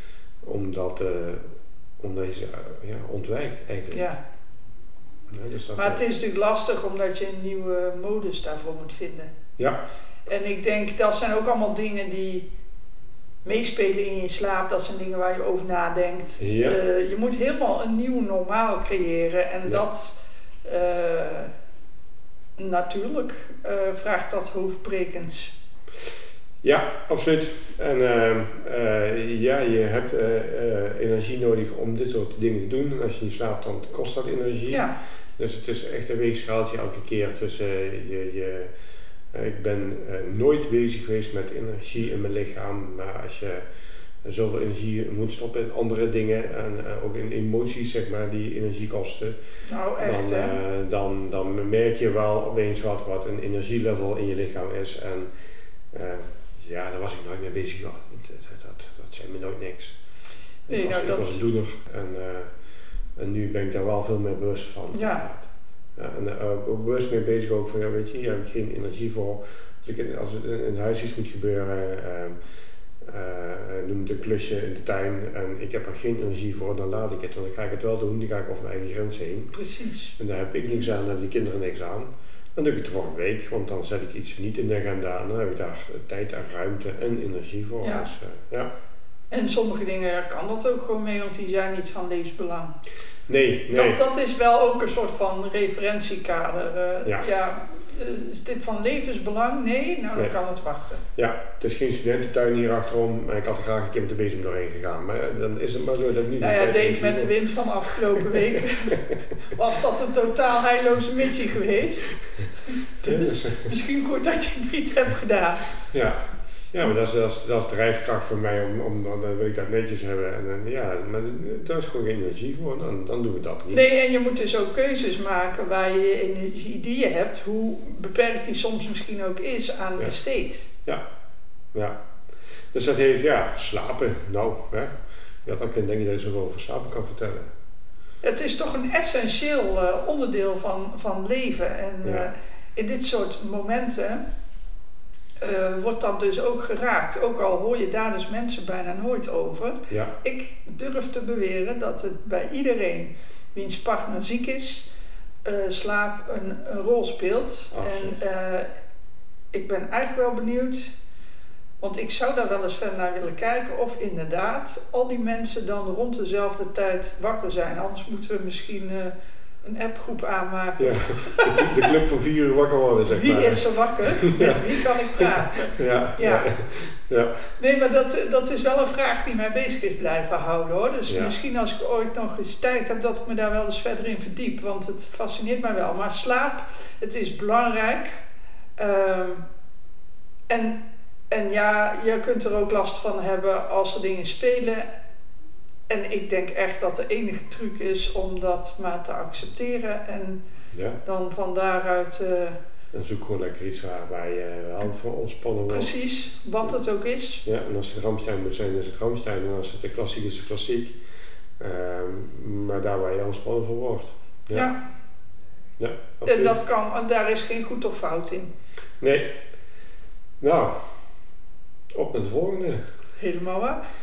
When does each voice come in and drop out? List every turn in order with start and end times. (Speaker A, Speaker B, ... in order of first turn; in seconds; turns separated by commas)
Speaker A: 0.4-4.1, Speaker B: 3.9-4.2, Speaker A: 5.3-6.0, Speaker B: 5.8-9.3, Speaker B: 10.2-12.5, Speaker B: 13.4-21.5, Speaker A: 16.4-16.8, Speaker B: 22.6-25.5, Speaker A: 26.6-38.7, Speaker B: 34.7-35.0, Speaker A: 39.3-43.6, Speaker A: 44.2-49.4, Speaker B: 49.7-50.5, Speaker A: 50.0-55.3, Speaker A: 55.9-60.0, Speaker A: 60.7-62.5, Speaker B: 60.7-61.4, Speaker A: 63.2-72.3, Speaker B: 64.9-65.2, Speaker A: 73.0-79.5, Speaker B: 79.5-80.1, Speaker A: 80.2-88.7, Speaker B: 89.3-92.7, Speaker A: 93.3-94.0, Speaker B: 93.7-101.0, Speaker A: 101.1-109.2, Speaker B: 106.4-112.1, Speaker B: 113.0-115.8, Speaker A: 113.0-113.7, Speaker A: 115.9-123.8, Speaker B: 123.7-130.7, Speaker A: 132.7-134.9, Speaker A: 135.4-137.5, Speaker B: 138.2-144.2, Speaker A: 142.0-142.3, Speaker B: 145.4-154.9, Speaker A: 149.9-150.1, Speaker B: 155.4-158.7, Speaker A: 157.7-158.1, Speaker B: 159.5-160.9, Speaker B: 161.8-171.9, Speaker A: 170.8-177.5, Speaker B: 173.0-176.5, Speaker B: 177.6-188.2, Speaker A: 181.1-181.3, Speaker B: 188.8-189.4, Speaker B: 190.5-194.9, Speaker B: 195.9-200.4, Speaker A: 200.7-201.0, Speaker B: 201.0-202.6, Speaker A: 202.9-205.9, Speaker B: 205.7-207.4, Speaker A: 207.4-211.0, Speaker A: 211.6-214.7, Speaker B: 214.5-214.8, Speaker A: 215.8-216.6, Speaker B: 216.3-218.5, Speaker A: 219.0-219.3, Speaker A: 220.4-221.0, Speaker A: 221.9-222.9, Speaker B: 223.2-223.8